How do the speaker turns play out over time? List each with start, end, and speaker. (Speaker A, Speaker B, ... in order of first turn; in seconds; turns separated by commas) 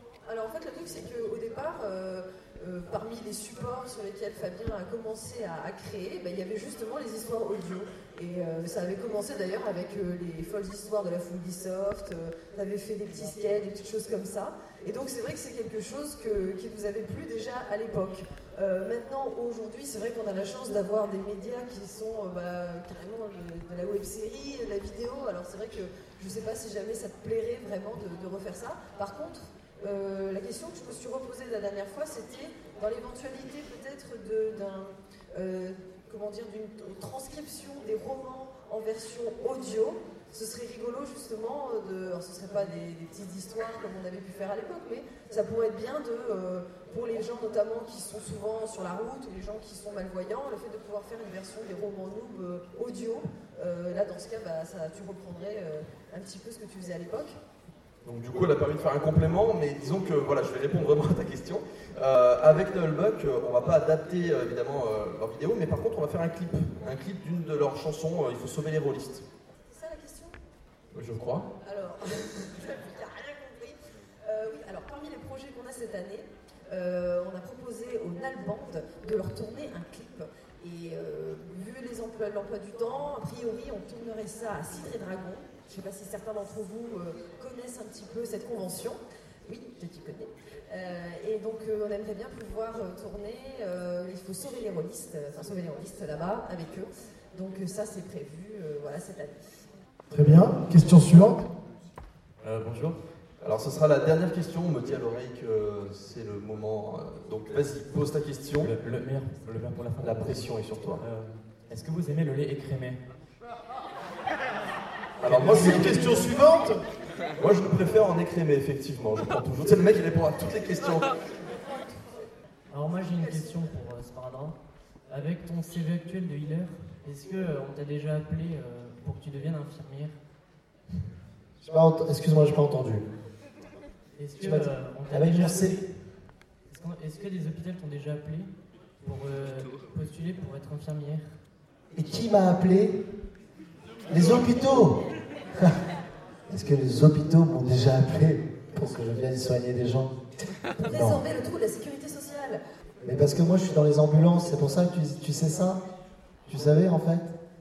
Speaker A: 0.3-57.4, Speaker B: 58.0-69.2, Speaker A: 69.7-70.4, Speaker B: 70.9-71.5, Speaker A: 71.6-99.7, Speaker C: 100.1-101.4, Speaker D: 102.4-103.0, Speaker B: 103.4-108.7, Speaker D: 108.6-113.0, Speaker B: 110.0-111.0, Speaker B: 115.2-116.2, Speaker D: 115.2-116.3, Speaker C: 115.3-116.8, Speaker B: 117.4-121.1, Speaker A: 121.7-122.0, Speaker E: 122.7-124.6, Speaker A: 123.2-123.5, Speaker E: 125.1-130.2, Speaker F: 131.6-133.1, Speaker E: 134.2-135.9, Speaker F: 134.4-135.8, Speaker E: 136.7-141.4, Speaker F: 141.9-143.0, Speaker F: 144.1-145.0, Speaker F: 146.5-150.1, Speaker F: 150.8-151.2, Speaker A: 150.8-152.6, Speaker F: 153.0-155.8, Speaker F: 156.5-157.3